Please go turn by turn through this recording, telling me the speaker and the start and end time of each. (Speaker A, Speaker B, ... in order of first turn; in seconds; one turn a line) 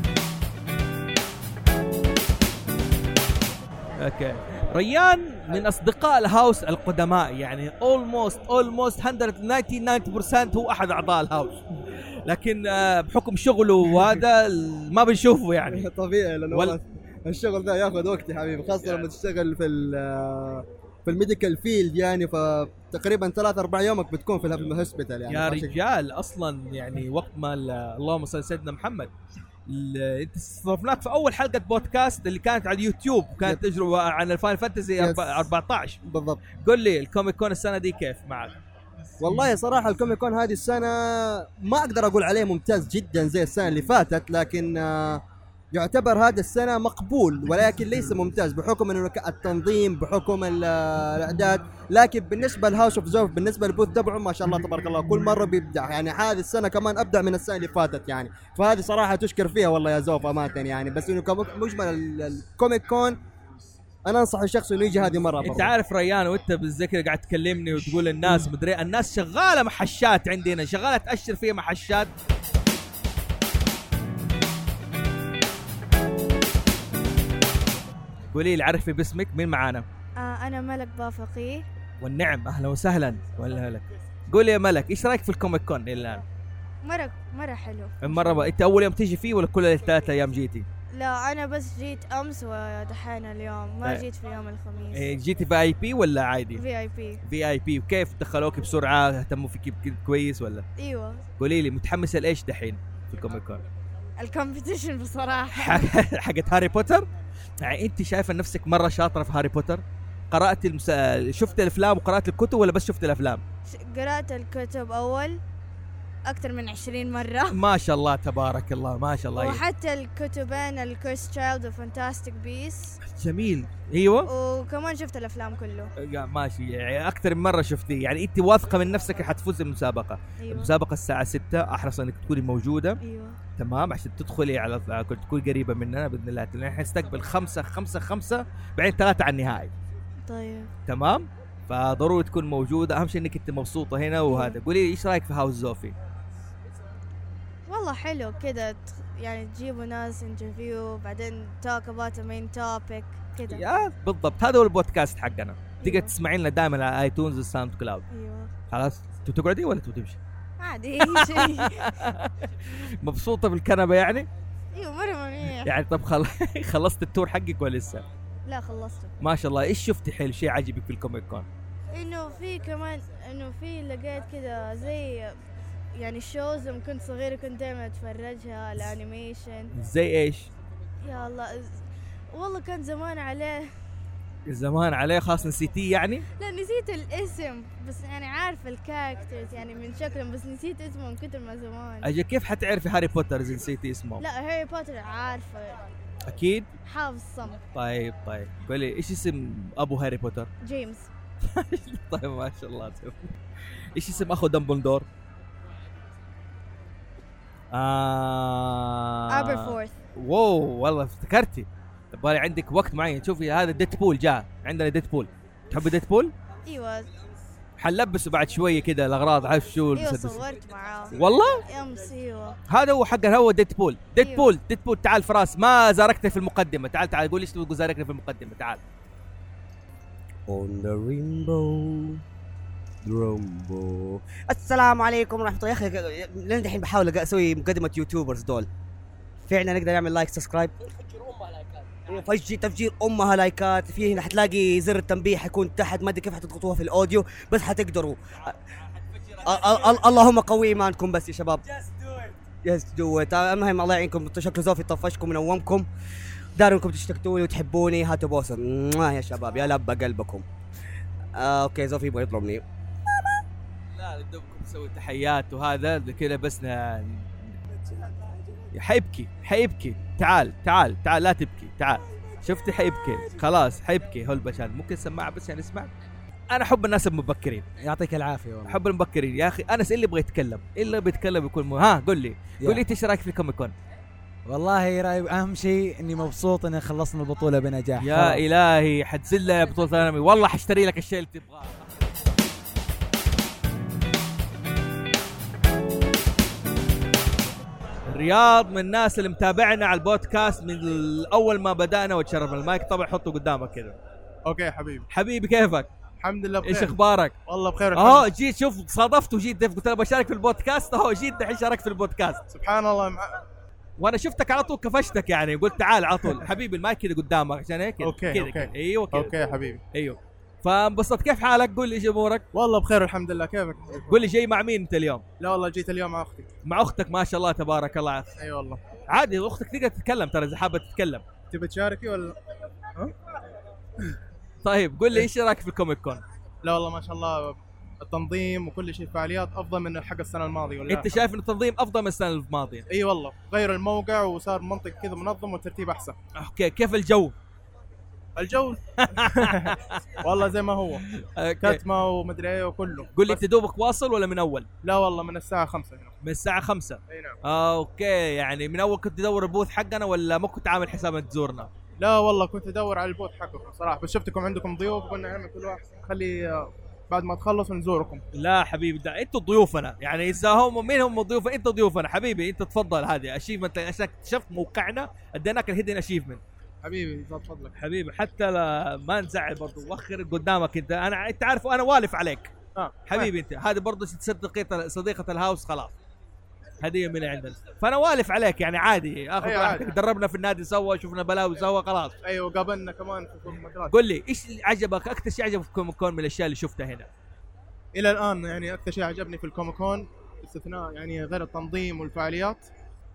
Speaker A: 4.0-15.9
Speaker B: 15.7-25.7
Speaker A: 16.5-16.8
Speaker A: 18.8-19.1
Speaker A: 25.3-29.1
Speaker A: 29.7-36.0
Speaker B: 35.0-35.5
Speaker B: 36.0-36.4
Speaker A: 36.6-38.5
Speaker B: 39.2-63.2
Speaker B: 64.0-65.7
Speaker A: 65.4-72.1
Speaker A: 78.3-79.9
Speaker C: 80.2-81.7
Speaker A: 82.0-86.2
Speaker C: 86.8-88.5
Speaker A: 88.0-90.7
Speaker C: 91.0-95.1
Speaker A: 94.9-96.7
Speaker C: 96.5-97.2
Speaker A: 97.2-100.7
Speaker C: 100.8-101.2
Speaker A: 101.4-103.6
Speaker C: 104.2-105.9
Speaker A: 105.5-107.1
Speaker A: 107.6-113.4
Speaker C: 113.7-115.4
Speaker C: 116.3-117.6
Speaker A: 117.5-119.6
Speaker C: 119.4-123.0
Speaker A: 123.1-124.3
Speaker C: 124.3-125.9
Speaker A: 126.0-133.0
Speaker C: 130.4-130.7
Speaker C: 133.0-133.4
Speaker A: 133.6-139.7
Speaker C: 140.2-140.7
Speaker A: 140.9-145.9
Speaker C: 144.3-144.6
Speaker C: 147.7-153.6
Speaker A: 153.5-158.0
Speaker C: 155.8-156.1
Speaker C: 158.1-158.5
Speaker A: 158.7-160.2
Speaker C: 160.6-161.9
Speaker A: 161.1-164.3
Speaker C: 164.7-165.7
Speaker A: 165.6-168.1
Speaker C: 168.5-169.1
Speaker A: 169.2-171.5
Speaker C: 171.9-175.3
Speaker C: 176.0-179.7
Speaker A: 179.8-180.5
Speaker C: 181.0-181.8
Speaker C: 182.3-183.7
Speaker A: 184.5-186.2
Speaker C: 186.4-192.1
Speaker A: 192.0-194.2
Speaker C: 194.2-195.8
Speaker A: 196.3-196.7
Speaker C: 196.8-197.6
Speaker A: 197.7-200.5
Speaker C: 200.6-201.1
Speaker A: 201.5-203.3
Speaker A: 203.9-205.1
Speaker A: 207.7-216.3
Speaker C: 209.3-209.9
Speaker C: 216.7-217.1
Speaker A: 217.8-220.4
Speaker C: 219.9-222.6
Speaker A: 221.1-221.6
Speaker A: 222.7-228.8
Speaker C: 224.2-224.5
Speaker D: 230.5-232.2
Speaker D: 233.0-238.7
Speaker D: 239.4-240.7
Speaker D: 242.1-248.5
Speaker D: 249.4-255.9
Speaker D: 256.6-260.4
Speaker D: 261.4-262.6
Speaker A: 264.0-267.6
Speaker A: 268.7-275.9
Speaker A: 276.5-277.7
Speaker E: 277.8-278.8
Speaker A: 278.7-283.7
Speaker E: 284.5-288.4
Speaker A: 288.0-291.9
Speaker A: 298.1-304.0
Speaker F: 304.5-305.1
Speaker A: 305.1-305.9
Speaker F: 306.2-306.9
Speaker A: 306.6-307.4
Speaker F: 307.5-308.3
Speaker A: 307.9-312.4
Speaker F: 312.5-313.4
Speaker A: 314.0-319.4
Speaker F: 318.0-319.8
Speaker A: 319.9-322.4
Speaker F: 322.5-324.2
Speaker A: 324.1-325.2
Speaker F: 325.4-326.5
Speaker A: 326.7-328.3
Speaker F: 328.4-328.8
Speaker A: 329.1-331.2
Speaker F: 331.5-332.4
Speaker A: 334.6-336.2
Speaker F: 336.6-341.1
Speaker A: 340.9-342.9
Speaker F: 342.9-346.1
Speaker A: 346.4-347.4
Speaker F: 348.4-351.0
Speaker A: 349.1-350.2
Speaker A: 351.2-351.8
Speaker F: 351.6-353.4
Speaker A: 353.1-354.7
Speaker F: 354.8-356.1
Speaker A: 356.2-361.7
Speaker F: 357.1-357.4
Speaker F: 362.0-368.2
Speaker A: 368.4-376.4
Speaker F: 376.8-377.8
Speaker A: 377.8-385.9
Speaker F: 382.8-383.3
Speaker A: 386.8-392.1
Speaker F: 389.4-389.9
Speaker F: 392.2-393.9
Speaker A: 393.9-397.1
Speaker F: 397.9-402.7